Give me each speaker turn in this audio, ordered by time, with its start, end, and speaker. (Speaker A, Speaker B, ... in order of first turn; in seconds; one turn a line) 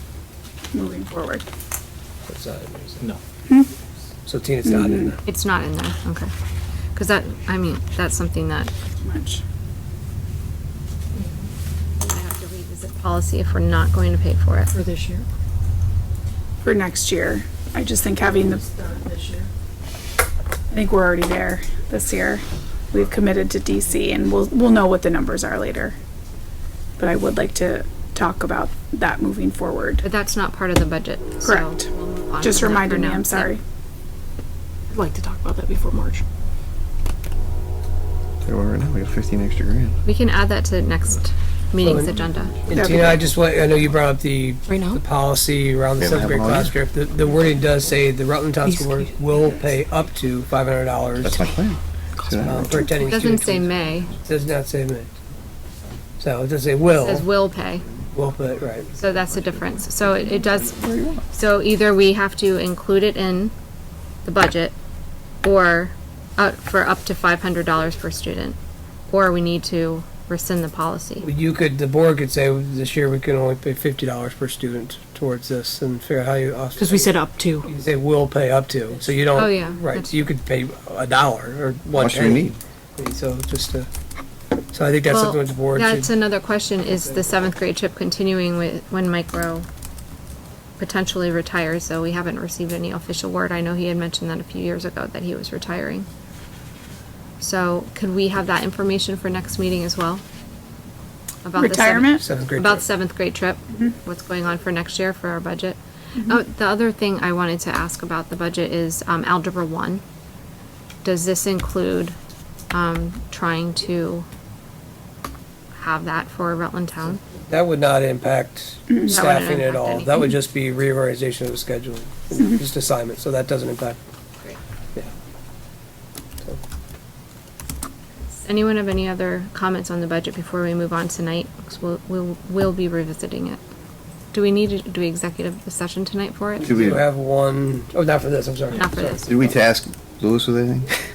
Speaker A: 0.7-1.4
Speaker B: 2.2-3.0
Speaker B: 4.2-5.2
Speaker A: 4.7-5.0
Speaker C: 5.2-6.3
Speaker C: 6.9-8.7
Speaker A: 9.0-9.4
Speaker C: 12.0-14.7
Speaker D: 14.7-15.2
Speaker A: 16.6-18.6
Speaker D: 18.1-19.5
Speaker A: 20.7-25.9
Speaker A: 27.0-30.0
Speaker C: 30.0-33.5
Speaker A: 31.4-31.9
Speaker A: 32.4-33.6
Speaker D: 34.9-36.2
Speaker E: 38.4-40.0
Speaker C: 40.0-42.6
Speaker B: 41.8-42.1
Speaker B: 42.7-51.5
Speaker A: 42.7-43.2
Speaker D: 44.7-45.0
Speaker E: 46.0-46.7
Speaker D: 48.6-49.1
Speaker E: 51.2-52.9
Speaker D: 52.2-52.4
Speaker B: 52.4-55.1
Speaker C: 53.0-54.1
Speaker B: 56.2-57.3
Speaker C: 57.0-57.8
Speaker B: 58.1-58.9
Speaker C: 59.0-63.5
Speaker C: 64.2-64.7
Speaker C: 65.4-68.6
Speaker C: 69.1-71.3
Speaker B: 71.2-83.9
Speaker D: 76.8-77.7
Speaker C: 79.3-80.1
Speaker E: 82.0-82.6
Speaker B: 84.7-86.1
Speaker C: 85.1-89.7
Speaker C: 90.8-96.1
Speaker C: 97.4-100.2
Speaker C: 101.4-110.0
Speaker A: 101.5-102.2
Speaker B: 102.2-102.8
Speaker C: 111.0-112.1
Speaker C: 112.7-114.2
Speaker C: 115.7-117.2
Speaker B: 117.3-124.0
Speaker A: 118.9-119.2
Speaker C: 119.1-120.3
Speaker C: 128.4-133.6
Speaker C: 134.3-136.7
Speaker E: 136.6-137.0
Speaker B: 136.6-139.2
Speaker C: 138.7-139.3
Speaker E: 139.2-140.9